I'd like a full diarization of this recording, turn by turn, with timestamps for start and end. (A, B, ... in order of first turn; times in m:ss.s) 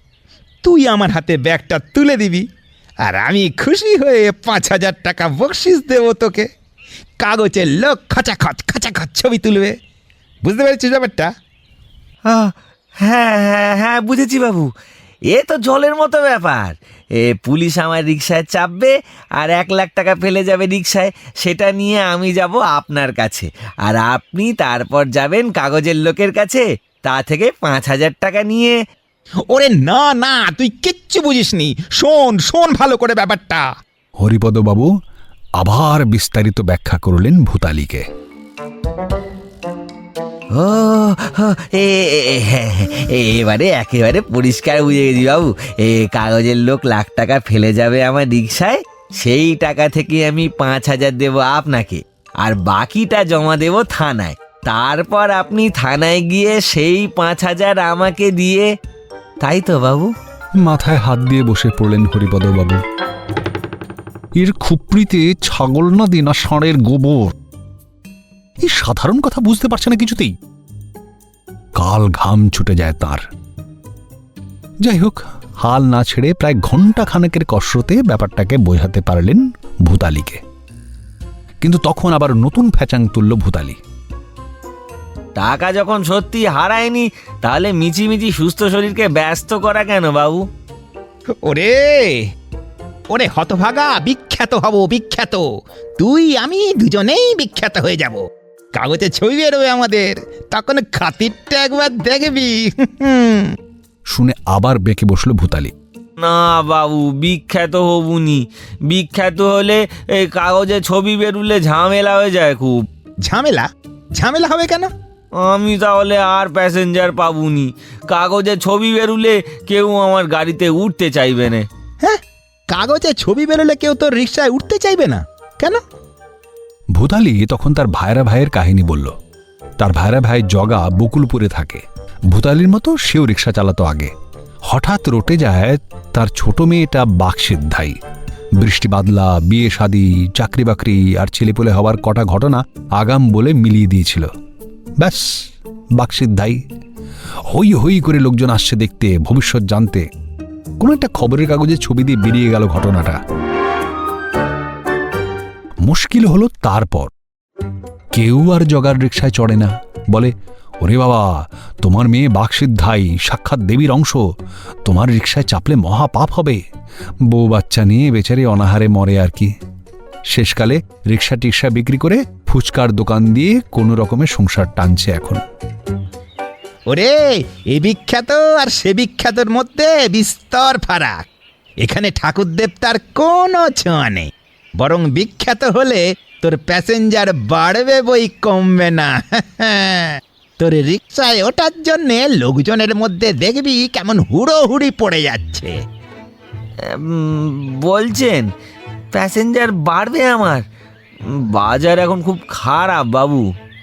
0:00.6-0:02.5 A
0:03.0-0:06.5 A
0:07.2-0:09.8 A
0:10.4-0:11.3 A
0:12.3-0:14.7 B
0:15.3-0:28.8 B
0:29.5-0:33.7 A
0:34.2-0:34.9 C
0:35.6-0:38.1 C
0:40.5-0:58.7 B
0:59.4-1:00.1 B
1:00.6-1:02.8 C
1:04.4-1:07.4 C
1:08.6-1:10.3 C
1:11.8-1:13.2 C
1:14.8-1:20.4 C
1:21.6-1:23.8 C
1:25.4-1:30.5 B
1:31.4-1:32.3 A
1:33.1-1:38.2 A
1:38.7-1:43.6 A
1:44.1-1:45.7 C
1:46.2-1:52.8 B
1:53.2-1:54.9 A
1:55.4-2:01.7 B
2:02.0-2:05.8 A
2:07.0-2:09.2 C
2:09.8-2:14.1 C
2:14.7-2:18.0 C
2:18.6-2:24.3 C
2:25.0-2:26.6 C
2:27.5-2:30.1 C
2:30.8-2:33.2 C
2:35.8-2:37.1 C
2:38.1-2:44.2 C
2:44.8-2:46.6 C
2:47.3-2:49.6 C
2:50.3-2:55.4 C
2:56.9-3:01.2 A
3:01.8-3:15.8 A
3:16.8-3:18.5 B
3:19.1-3:20.6 B
3:21.3-3:23.4 B